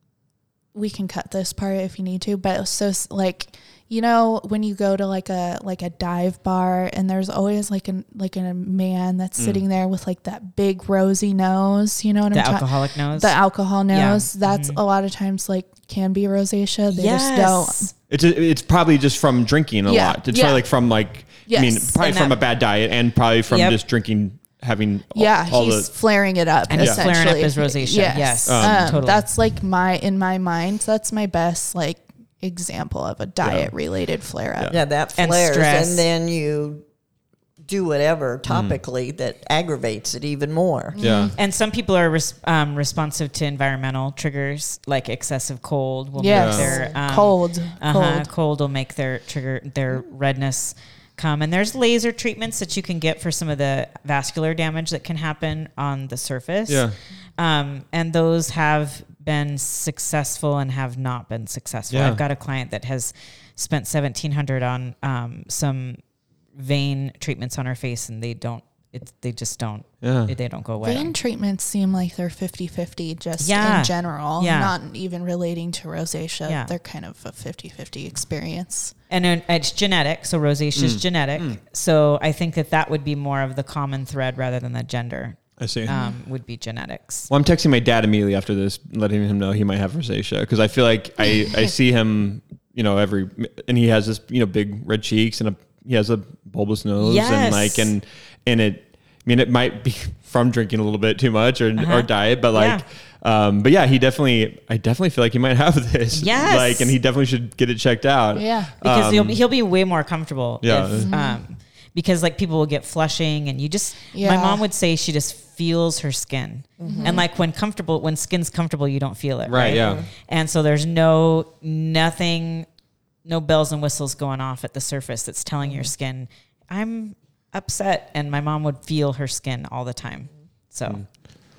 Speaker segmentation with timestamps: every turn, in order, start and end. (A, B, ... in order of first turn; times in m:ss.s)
0:00.7-0:17.9 A
0:09.4-0:09.6 B
0:12.3-0:13.4 C
0:13.9-0:14.8 C
0:16.9-0:17.9 C
0:18.1-0:25.9 B
0:19.9-0:20.6 A
0:21.4-0:21.9 A
0:22.0-0:22.4 C
0:23.5-0:23.8 C
0:25.1-0:34.7 A
0:26.7-0:29.3 C
0:26.8-0:27.4 B
0:28.5-0:29.0 B
0:33.4-0:33.7 B
0:34.7-0:36.8 D
0:35.2-0:36.1 C
0:37.6-0:41.0 D
0:38.5-0:38.8 B
0:40.9-0:41.4 A
0:41.0-0:41.3 B
0:41.4-1:06.0 C
0:46.2-0:48.2 A
0:46.3-0:46.8 B
0:56.7-0:56.9 B
1:01.9-1:02.2 B
1:06.5-1:11.1 C
1:10.0-1:10.4 B
1:10.8-1:18.9 A
1:13.4-1:14.7 C
1:16.4-1:16.7 C
1:19.1-1:27.3 C
1:20.8-1:21.6 B
1:25.6-1:25.9 B
1:25.9-1:26.2 A
1:27.3-1:49.4 B
1:37.0-1:37.9 C
1:41.8-1:42.8 C
1:46.1-1:47.0 C
1:48.4-1:48.7 A
1:48.8-2:02.7 C
1:50.6-1:51.1 B
1:51.0-1:51.4 A
1:54.1-1:54.6 A
1:56.8-1:57.2 D
1:56.8-1:57.2 A
1:59.4-2:00.0 B
1:59.6-2:00.1 D
2:03.2-2:11.0 C